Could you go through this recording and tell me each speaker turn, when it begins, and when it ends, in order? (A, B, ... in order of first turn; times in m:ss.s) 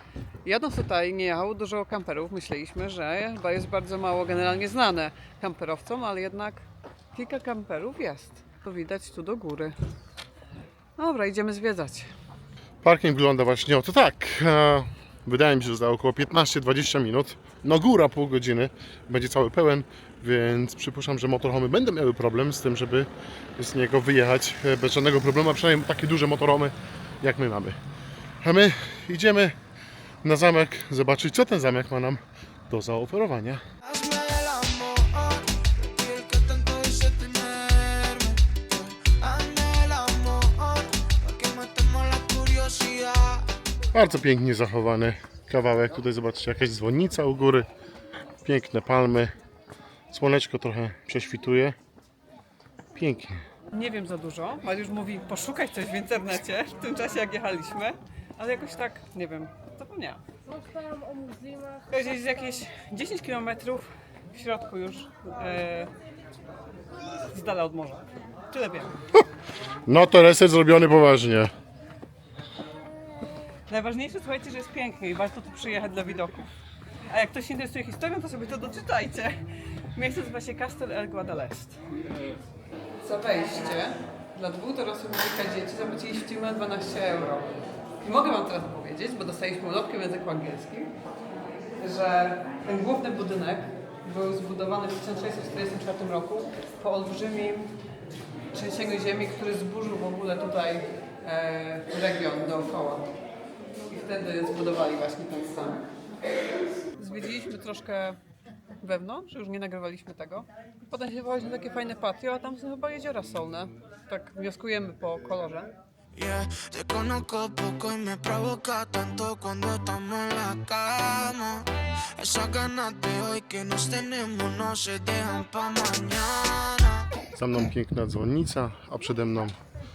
0:00.4-0:09.7 A
0:11.0-0:12.1 A
0:12.8-0:27.8 B
0:28.4-0:29.6 B
0:30.2-0:33.6 B
0:33.8-0:43.4 C
0:43.9-0:47.7 B
0:48.4-0:49.3 B
0:50.1-0:51.8 B
0:53.0-0:53.4 B
0:53.7-1:00.2 A
1:01.9-1:05.9 A
1:07.3-1:09.0 A
1:09.8-1:11.5 B
1:13.7-1:16.5 A
1:17.1-1:19.4 A
1:19.9-1:21.8 A
1:23.0-1:27.5 A
1:28.0-1:30.9 A
1:31.8-1:37.7 A
1:38.5-1:43.1 A
1:43.9-1:45.9 A
1:47.0-1:48.2 A
1:48.8-1:55.7 A
1:56.1-2:07.0 C
2:07.3-2:09.5 B